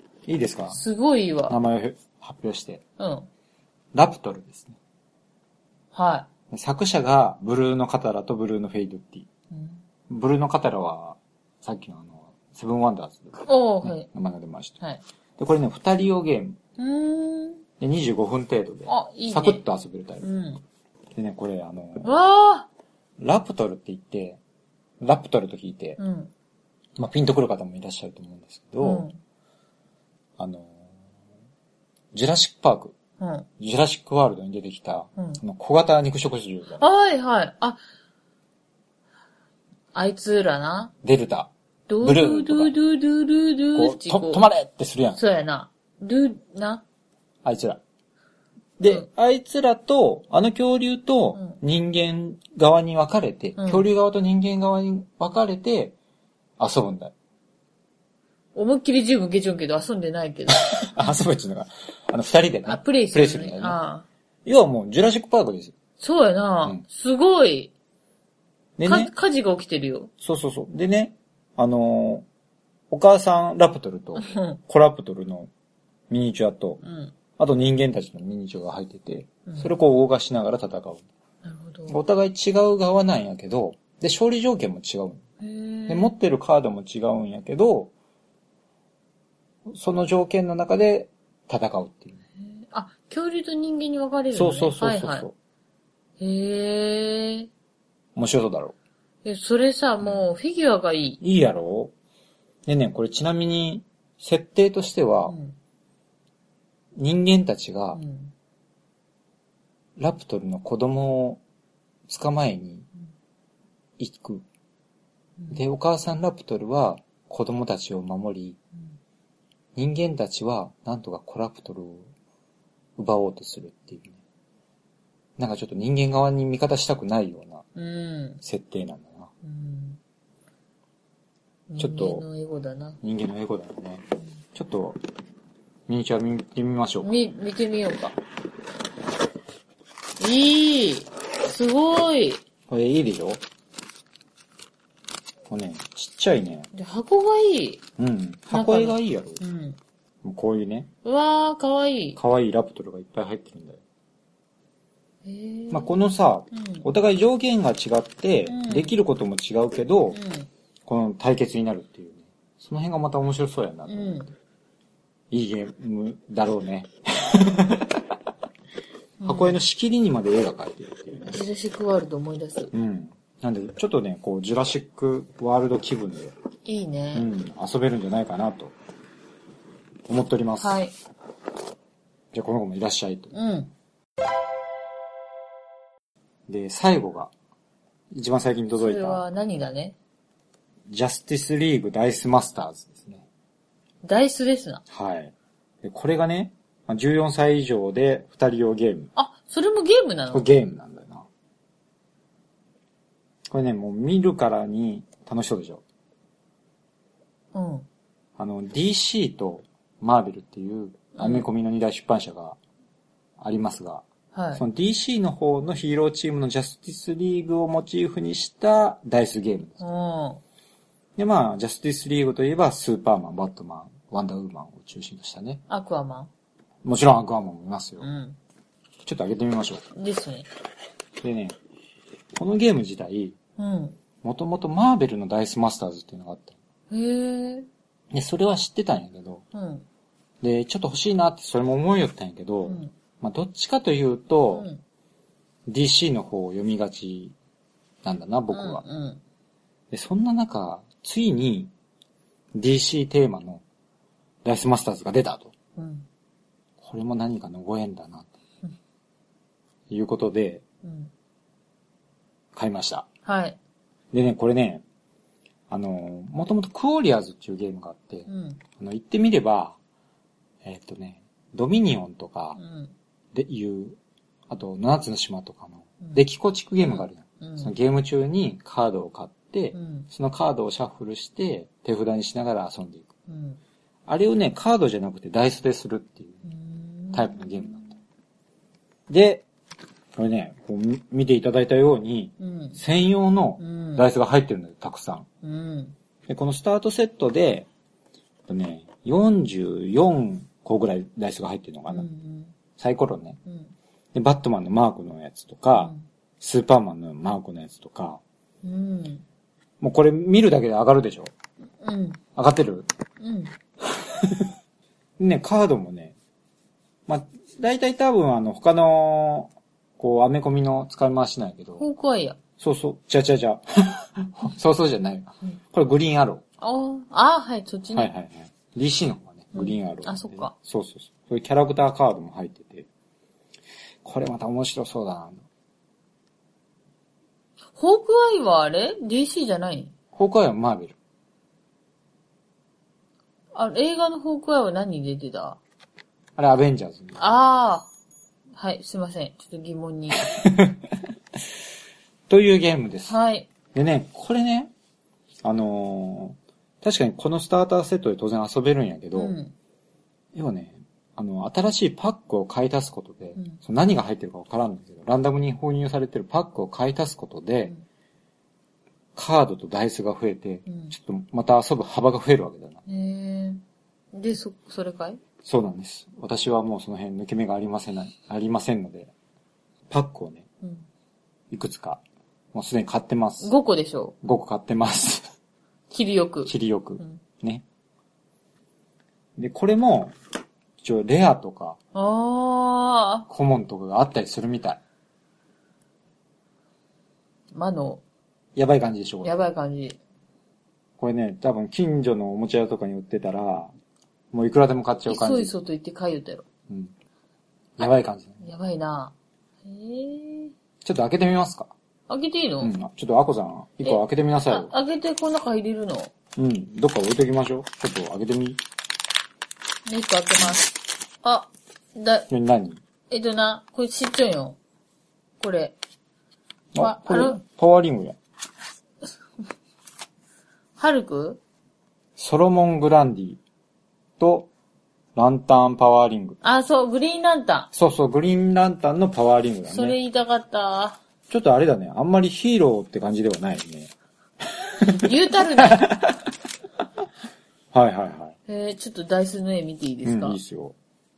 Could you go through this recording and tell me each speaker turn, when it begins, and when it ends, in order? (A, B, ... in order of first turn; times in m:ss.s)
0:00.3-0:00.8 A
0:00.7-0:01.6 B
0:01.5-0:02.8 A
0:03.0-0:03.3 B
0:03.9-0:04.8 A
0:05.9-0:06.3 B
0:06.5-0:09.3 A
0:09.5-0:09.8 B
0:10.1-0:14.8 A
0:13.4-0:14.1 B
0:15.4-0:16.6 A
0:16.8-0:17.6 B
0:17.8-0:20.2 A
0:18.9-0:19.6 B
0:20.2-0:20.6 B
0:21.1-0:22.1 A
0:22.0-0:22.7 B
0:23.2-0:24.4 A
0:25.0-0:26.0 A
0:26.0-0:26.3 B
0:27.0-0:29.1 A
0:28.8-0:29.2 B
0:30.4-0:30.8 A
0:32.1-0:32.9 A
0:33.2-0:33.5 B
0:33.6-0:36.8 A
0:36.8-0:37.8 B
0:39.9-0:40.9 B
0:41.0-0:41.5 A
0:41.9-0:44.4 B
0:42.0-0:42.7 A
0:43.7-0:45.2 A
0:45.1-0:46.8 B
0:47.4-0:47.8 A
0:48.8-0:56.0 A
0:53.6-0:53.9 B
0:56.6-0:57.1 A
0:58.5-1:01.0 B
1:00.6-1:03.8 A
1:02.6-1:04.0 B
1:04.4-1:05.7 A
1:06.0-1:07.7 B
1:08.8-1:09.1 A
1:08.8-1:10.1 B
1:10.2-1:12.2 A
1:12.9-1:15.5 A
1:14.1-1:14.6 B
1:16.1-1:16.8 A
1:16.8-1:17.1 B
1:17.4-1:21.0 A
1:19.5-1:19.7 B
1:21.4-1:22.0 B
1:21.9-1:25.2 A
1:25.4-1:26.1 B
1:25.9-1:27.9 A
1:29.7-1:32.2 A
1:32.4-1:35.2 B
1:34.3-1:35.3 A
1:36.2-1:37.5 B
1:38.2-1:38.7 A
1:39.2-1:41.2 B
1:41.2-1:41.9 A
1:42.6-1:45.3 A
1:45.3-1:45.6 B
1:47.0-1:48.0 A
1:47.9-1:48.3 B
1:50.0-1:51.4 A
1:52.1-1:52.8 A
1:54.0-1:54.4 A
1:55.5-1:58.6 A
1:59.7-2:02.1 A
2:03.0-2:04.2 A
2:05.4-2:07.6 A
2:07.8-2:08.4 B
2:08.4-2:09.3 A
2:09.4-2:10.0 B
2:11.7-2:13.0 B
2:11.8-2:12.2 A
2:13.0-2:14.0 A
2:14.5-2:15.0 A
2:15.9-2:17.1 A
2:17.0-2:18.2 B
2:20.2-2:22.4 B
2:22.7-2:23.4 A
2:25.5-2:26.7 A
2:26.7-2:27.8 B
2:28.0-2:29.4 A
2:28.5-2:29.8 B
2:30.2-2:30.9 A
2:31.0-2:32.2 B
2:32.2-2:33.8 A
2:35.2-2:36.9 B
2:35.7-2:40.2 A
2:38.4-2:38.9 B
2:40.1-2:40.5 B
2:40.9-2:44.2 A
2:43.9-2:44.3 B
2:45.3-2:48.0 A
2:49.2-2:49.6 B
2:49.2-2:51.4 A
2:51.2-2:52.7 B
2:52.7-2:56.3 A
2:56.6-2:57.3 B
2:57.1-2:58.7 A
3:00.1-3:00.8 A
3:00.6-3:00.9 B
3:02.3-3:03.3 A
3:03.3-3:03.7 B
3:06.5-3:07.3 A
3:08.1-3:09.2 A
3:08.7-3:10.0 B
3:10.9-3:13.2 A
3:14.0-3:14.8 B
3:14.9-3:19.1 A
3:19.2-3:20.5 B
3:20.3-3:21.3 A
3:23.5-3:25.8 A
3:27.5-3:27.9 B
3:28.4-3:32.6 A
3:31.2-3:31.5 B
3:33.4-3:34.0 A
3:34.3-3:34.6 B
3:34.6-3:39.8 A
3:39.8-3:40.4 B
3:41.2-3:45.6 A
3:45.7-3:46.3 B
3:46.8-3:48.0 A
3:48.0-3:48.4 B
3:49.0-3:49.8 A
3:49.9-3:50.5 B
3:51.2-3:51.6 A
3:52.3-3:53.4 A
3:53.6-3:54.0 B
3:54.2-3:56.5 A
3:56.9-3:57.7 B
3:58.1-3:59.4 A
3:59.5-3:59.8 B
4:00.4-4:04.7 A
4:02.6-4:02.9 B
4:04.5-4:04.8 B
4:05.7-4:07.3 A
4:08.0-4:08.8 A
4:08.5-4:09.2 B
4:09.9-4:11.7 A
4:12.5-4:13.6 A
4:14.4-4:15.5 A
4:15.8-4:16.0 B
4:16.8-4:18.3 A
4:19.9-4:20.6 A
4:20.8-4:21.1 B
4:22.5-4:23.1 A
4:23.2-4:23.6 B
4:24.1-4:24.8 A
4:25.7-4:28.3 A
4:28.3-4:28.6 B
4:28.8-4:29.8 A
4:30.6-4:32.6 A
4:32.6-4:32.9 B
4:33.3-4:34.0 A
4:34.5-4:43.1 A
4:36.8-4:37.7 B
4:39.7-4:40.1 B
4:43.3-4:43.6 B
4:44.1-4:46.4 A
4:46.4-4:47.9 B
4:47.1-4:47.9 A
4:49.1-4:49.4 A
4:50.2-4:55.2 A
4:52.4-4:52.8 B
4:53.6-4:54.0 B
4:55.4-4:55.9 B
4:56.3-4:57.7 A
4:58.5-5:02.1 A
5:01.9-5:02.5 B
5:02.8-5:03.4 A
5:03.4-5:03.7 B
5:04.1-5:08.2 A
5:05.8-5:06.0 B
5:08.6-5:09.2 B
5:09.8-5:11.3 A
5:11.8-5:12.2 B
5:12.3-5:12.9 A
5:13.2-5:13.5 B
5:13.8-5:14.5 A
5:15.2-5:16.1 A
5:17.1-5:21.8 A
5:21.8-5:22.4 B
5:22.6-5:26.4 A
5:26.6-5:28.1 B
5:27.9-5:32.9 A
5:29.5-5:30.5 B
5:34.0-5:35.4 A
5:37.7-5:39.9 B
5:40.1-5:40.9 A
5:43.5-5:45.6 B
5:46.4-5:47.2 A
5:47.2-5:47.9 B
5:48.6-5:50.4 B
5:50.2-5:50.8 A
5:52.3-5:53.2 A
5:53.1-5:53.5 B
5:53.7-5:54.7 A
5:55.4-5:59.4 A
5:59.1-5:59.5 B
6:00.3-6:07.7 A
6:09.2-6:12.8 A
6:10.6-6:10.9 B
6:12.8-6:13.6 B
6:14.1-6:15.2 B
6:15.4-6:19.1 A
6:19.9-6:20.4 A
6:20.6-6:20.9 B
6:21.5-6:22.0 A
6:22.5-6:23.5 A
6:23.4-6:24.1 B
6:24.2-6:25.3 A
6:25.9-6:27.2 B
6:26.4-6:27.6 A
6:29.4-6:30.1 A
6:30.8-6:31.8 A
6:31.9-6:33.3 B
6:33.3-6:34.8 A
6:37.5-6:38.0 B
6:38.6-6:39.4 A
6:39.2-6:40.0 B
6:41.0-6:43.7 A
6:44.3-6:45.5 A
6:45.0-6:46.4 B
6:47.8-6:48.4 A
6:48.4-6:49.1 B
6:49.6-6:50.5 B
6:50.8-6:51.7 A
6:52.1-6:52.7 B
6:52.6-6:54.7 A
6:53.8-6:56.1 B
6:56.4-6:58.6 A
6:59.8-7:02.3 B
7:02.3-7:02.8 A
7:03.1-7:04.6 B
7:05.4-7:05.8 B
7:06.7-7:08.2 A
7:06.8-7:07.4 B
7:10.8-7:11.4 B
7:12.2-7:13.4 A
7:14.2-7:14.5 A
7:15.1-7:16.4 A
7:16.4-7:17.7 B
7:17.7-7:20.0 A
7:19.7-7:21.0 B
7:21.3-7:23.9 A
7:24.5-7:26.2 A
7:24.9-7:25.9 B
7:27.7-7:28.3 A
7:28.5-7:30.4 B
7:30.0-7:30.7 A